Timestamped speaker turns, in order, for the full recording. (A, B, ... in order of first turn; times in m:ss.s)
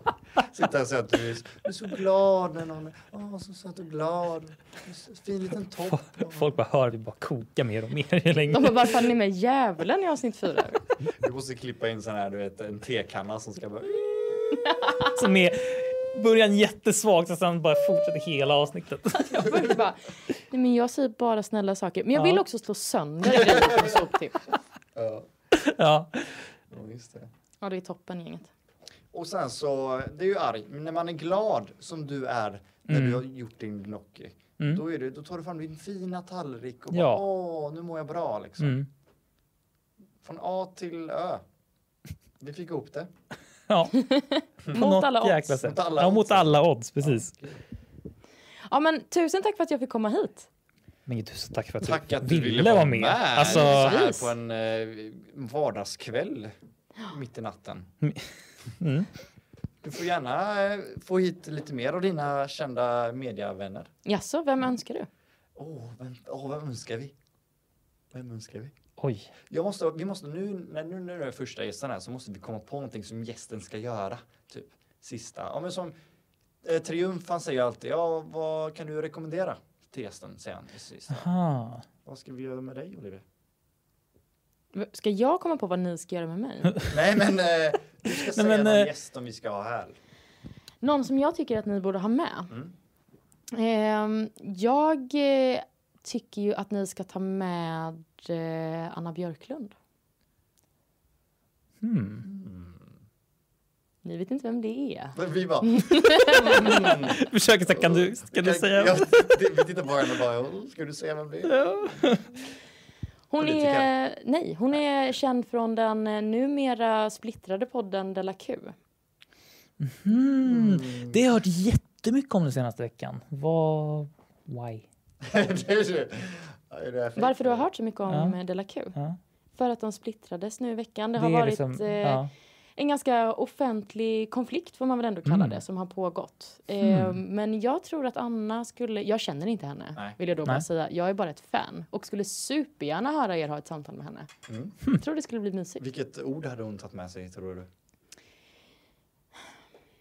0:00.4-0:06.5 A
0:05.9-0:09.1 B
0:08.5-0:10.8 C
0:11.2-0:14.5 A
0:15.2-0:19.5 B
0:19.1-0:24.4 C
0:22.1-0:22.4 B
0:25.0-0:25.3 A
0:25.5-0:26.4 B
0:26.7-0:27.3 A
0:27.6-0:28.5 C
0:29.1-0:38.8 A
0:32.9-0:33.2 B
0:36.9-0:37.2 B
0:38.6-0:38.9 B
0:40.2-0:41.4 A
0:42.4-0:43.1 A
0:43.7-0:44.0 B
0:43.9-0:45.7 C
0:44.7-0:47.3 B
0:45.6-0:47.6 A
0:48.7-0:50.5 C
0:51.1-0:54.0 B
0:51.8-0:57.9 A
0:53.4-0:54.3 C
0:58.0-0:58.3 B
0:58.8-0:59.1 B
0:59.8-1:03.9 A
1:04.0-1:05.1 C
1:05.6-1:07.1 A
1:08.1-1:08.7 A
1:09.0-1:09.3 B
1:09.5-1:16.0 A
1:16.6-1:21.3 A
1:21.1-1:21.8 B
1:22.0-1:23.2 A
1:24.7-1:26.8 C
1:26.8-1:30.0 A
1:28.3-1:28.9 B
1:30.8-1:32.5 C
1:33.5-1:39.7 C
1:41.8-1:42.2 B
1:42.2-1:42.9 A
1:44.0-1:46.9 C
1:45.1-1:51.7 A
1:46.4-1:49.4 B
1:51.5-1:52.3 B
1:53.3-1:58.8 C
1:53.4-1:53.9 A
1:59.8-2:04.9 B
2:00.4-2:01.2 A
2:05.2-2:07.7 A
2:07.2-2:09.0 C
2:08.1-2:08.4 B
2:09.6-2:24.3 C
2:11.2-2:12.3 B
2:15.2-2:15.6 B
2:16.8-2:17.2 B
2:24.5-2:24.7 A
2:24.9-2:25.8 C
2:25.8-2:27.7 A